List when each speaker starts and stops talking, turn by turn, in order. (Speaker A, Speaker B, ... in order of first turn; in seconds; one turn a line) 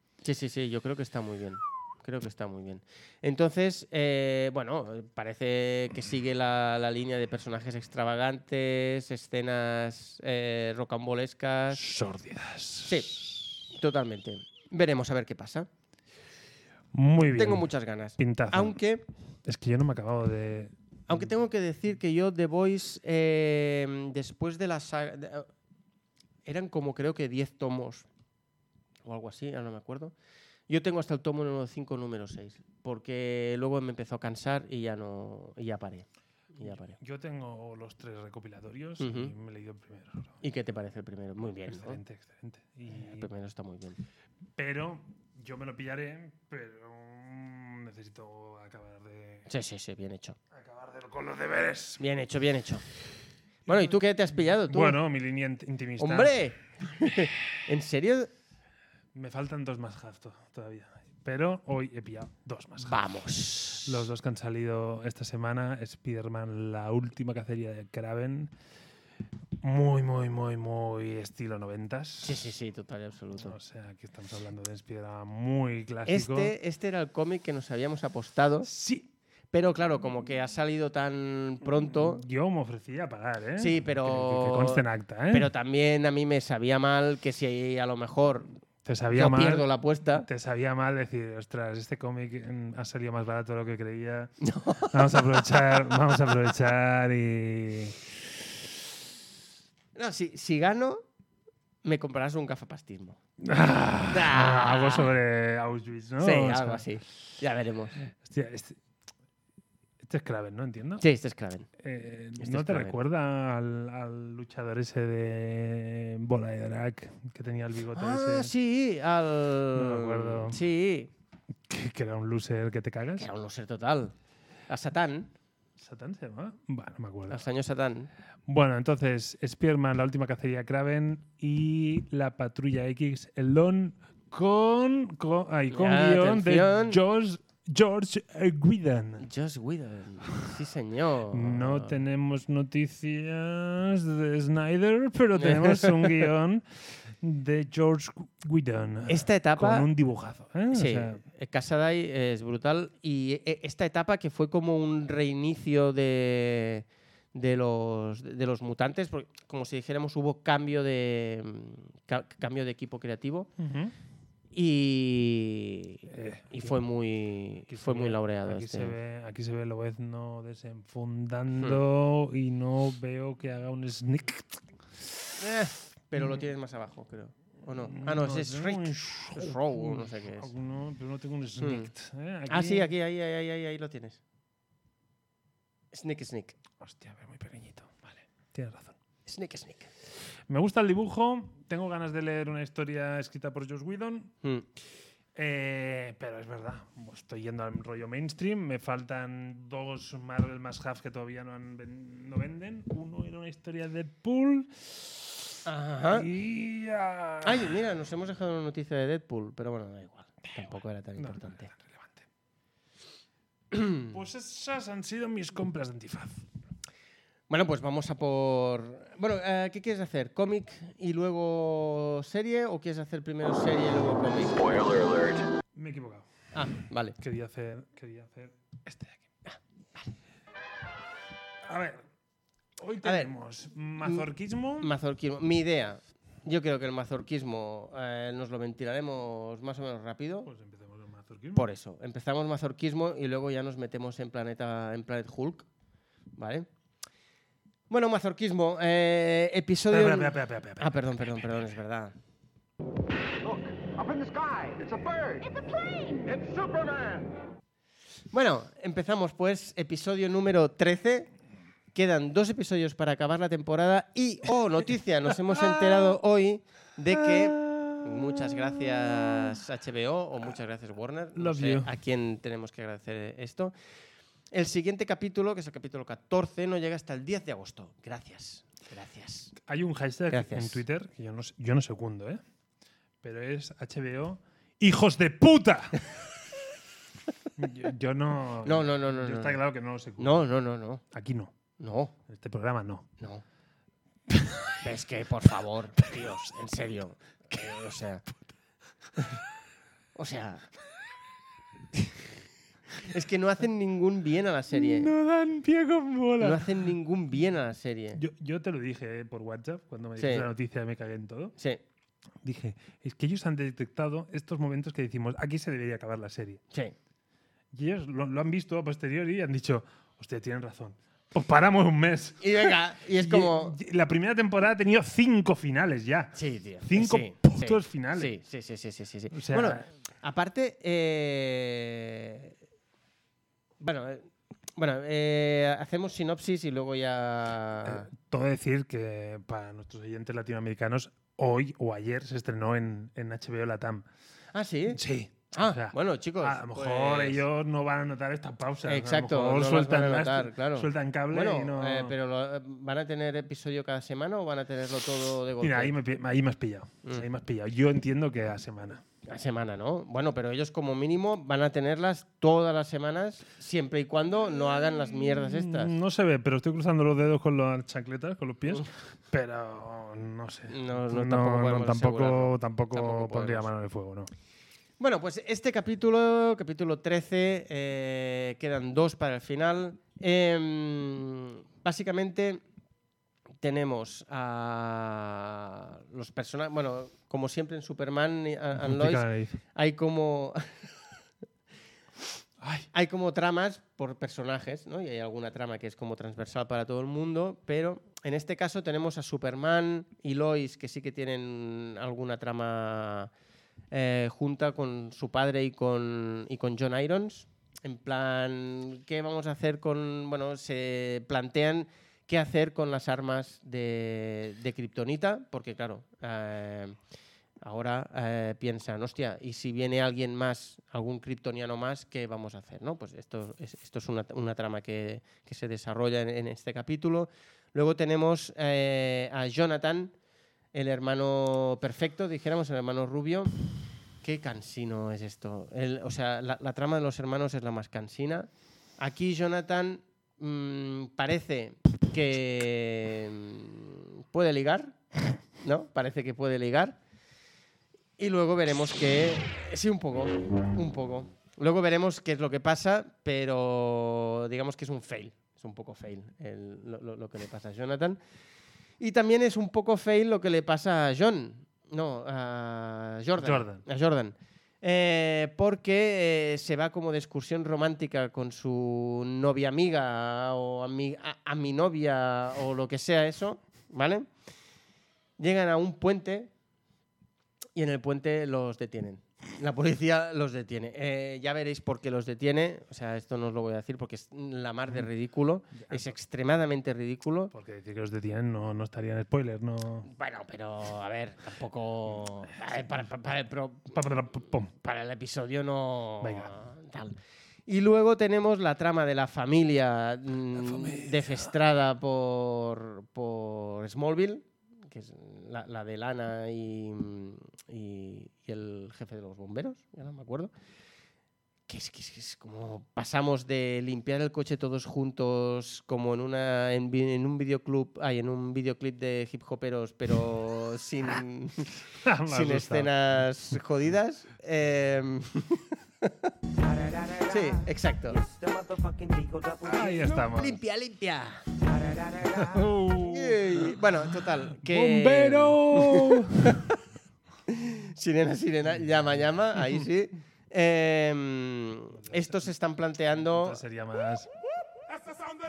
Speaker A: 0.2-11.8
Speaker B: 11.7-13.0
Speaker A: 12.8-13.1
Speaker A: 13.7-15.7
Speaker B: 16.9-18.8
Speaker A: 17.3-19.1
Speaker B: 19.5-20.7
Speaker A: 21.1-25.5
Speaker A: 26.4-28.1
Speaker A: 29.0-30.1
Speaker A: 30.7-37.0
Speaker B: 36.7-40.4
Speaker A: 39.0-39.3
Speaker A: 40.4-42.0
Speaker B: 41.5-43.3
Speaker A: 43.0-44.0
Speaker B: 44.6-49.5
Speaker A: 49.5-50.4
Speaker B: 50.5-52.0
Speaker A: 52.0-52.9
Speaker A: 53.7-55.0
Speaker B: 53.7-54.0
Speaker B: 54.5-56.5
Speaker A: 56.0-58.3
Speaker B: 59.1-63.0
Speaker A: 62.8-64.1
Speaker B: 63.8-68.5
Speaker B: 69.6-72.4
Speaker A: 72.2-73.6
Speaker B: 73.4-76.5
Speaker A: 76.1-78.7
Speaker B: 78.7-79.1
Speaker A: 79.5-82.2
Speaker B: 82.0-85.5
Speaker A: 83.6-88.5
Speaker B: 88.8-98.0
Speaker A: 89.1-90.3
Speaker A: 94.4-96.3
Speaker A: 100.0-101.0
Speaker A: 101.8-103.2
Speaker B: 103.4-106.8
Speaker A: 104.1-105.1
Speaker A: 106.2-108.0
Speaker B: 108.1-108.8
Speaker B: 110.0-111.0
Speaker A: 111.0-111.7
Speaker B: 111.8-118.5
Speaker A: 112.4-113.0
Speaker A: 117.9-121.1
Speaker B: 119.7-120.6
Speaker B: 121.7-123.3
Speaker A: 123.2-124.1
Speaker A: 124.7-125.3
Speaker B: 125.8-127.4
Speaker A: 127.3-128.1
Speaker B: 128.5-139.3
Speaker A: 135.7-137.0
Speaker A: 139.2-141.9
Speaker B: 141.3-151.2
Speaker A: 145.3-146.3
Speaker A: 149.1-149.9
Speaker A: 150.7-163.5
Speaker B: 163.6-163.9
Speaker A: 164.5-168.9
Speaker B: 166.1-166.8
Speaker B: 167.7-175.1
Speaker A: 175.4-180.5
Speaker B: 177.8-182.9
Speaker A: 181.6-181.9
Speaker A: 182.5-184.2
Speaker A: 185.9-186.6
Speaker B: 186.8-188.9
Speaker A: 189.3-189.9
Speaker B: 190.5-194.3
Speaker B: 195.3-205.3
Speaker A: 205.7-206.3
Speaker B: 206.1-207.8
Speaker A: 207.4-211.7
Speaker B: 211.2-212.2
Speaker A: 213.7-214.1
Speaker B: 214.0-216.4
Speaker A: 217.5-225.4
Speaker B: 225.8-226.3
Speaker A: 226.5-227.2
Speaker B: 227.2-229.2
Speaker A: 229.5-230.1
Speaker B: 231.7-232.0
Speaker B: 232.8-234.9
Speaker A: 233.0-233.3
Speaker A: 234.0-234.3
Speaker A: 234.8-240.5
Speaker B: 240.4-241.7
Speaker A: 241.6-245.7
Speaker A: 246.4-246.7
Speaker A: 247.9-252.2
Speaker B: 249.9-251.4
Speaker C: 253.4-257.4
Speaker A: 258.3-261.3
Speaker A: 261.9-273.7
Speaker B: 265.4-266.2
Speaker B: 267.1-269.6
Speaker B: 271.4-271.9
Speaker A: 274.5-279.5
Speaker B: 279.6-282.4
Speaker A: 280.3-280.8
Speaker B: 283.2-286.3
Speaker B: 287.6-290.5
Speaker A: 288.6-289.6
Speaker A: 290.2-291.0
Speaker B: 291.1-291.5
Speaker A: 291.8-292.1
Speaker B: 292.3-293.1
Speaker A: 293.2-293.4
Speaker B: 294.3-294.8
Speaker A: 294.8-298.2
Speaker B: 296.0-296.4
Speaker A: 300.1-300.7
Speaker A: 302.9-305.1
Speaker B: 304.7-306.8
Speaker A: 306.4-308.2
Speaker B: 308.2-311.6
Speaker A: 310.2-310.5
Speaker B: 312.4-316.6
Speaker B: 317.7-328.3
Speaker A: 322.4-323.8
Speaker A: 326.3-332.6
Speaker B: 329.3-329.9
Speaker A: 333.8-338.1
Speaker B: 337.9-344.1
Speaker A: 344.5-345.0
Speaker B: 344.9-352.1
Speaker A: 345.5-347.4
Speaker A: 348.9-355.9
Speaker B: 355.6-359.0
Speaker A: 359.2-365.9
Speaker B: 364.9-374.3
Speaker A: 370.7-373.7
Speaker A: 375.0-382.6
Speaker A: 383.6-391.1
Speaker B: 388.8-389.6
Speaker B: 392.6-392.9
Speaker A: 392.9-403.3
Speaker A: 403.9-417.0
Speaker A: 417.6-430.1
Speaker A: 430.7-433.5
Speaker A: 434.2-445.0
Speaker A: 445.6-447.0
Speaker A: 448.2-458.2
Speaker A: 459.0-474.3
Speaker B: 463.4-463.8
Speaker A: 475.4-476.5
Speaker A: 477.8-487.5
Speaker B: 485.7-486.1
Speaker B: 487.5-490.1
Speaker A: 490.1-510.5
Speaker B: 493.9-494.7
Speaker B: 496.2-496.5
Speaker B: 500.6-501.5
Speaker A: 511.7-521.8
Speaker B: 522.0-523.0
Speaker A: 522.3-526.3
Speaker C: 526.9-527.3
Speaker A: 527.3-528.2
Speaker C: 528.3-529.6
Speaker B: 529.6-530.6
Speaker A: 530.2-531.6
Speaker A: 532.2-536.8
Speaker B: 532.3-533.8
Speaker B: 534.5-536.8
Speaker A: 537.5-543.6
Speaker B: 541.9-542.5
Speaker B: 543.2-544.3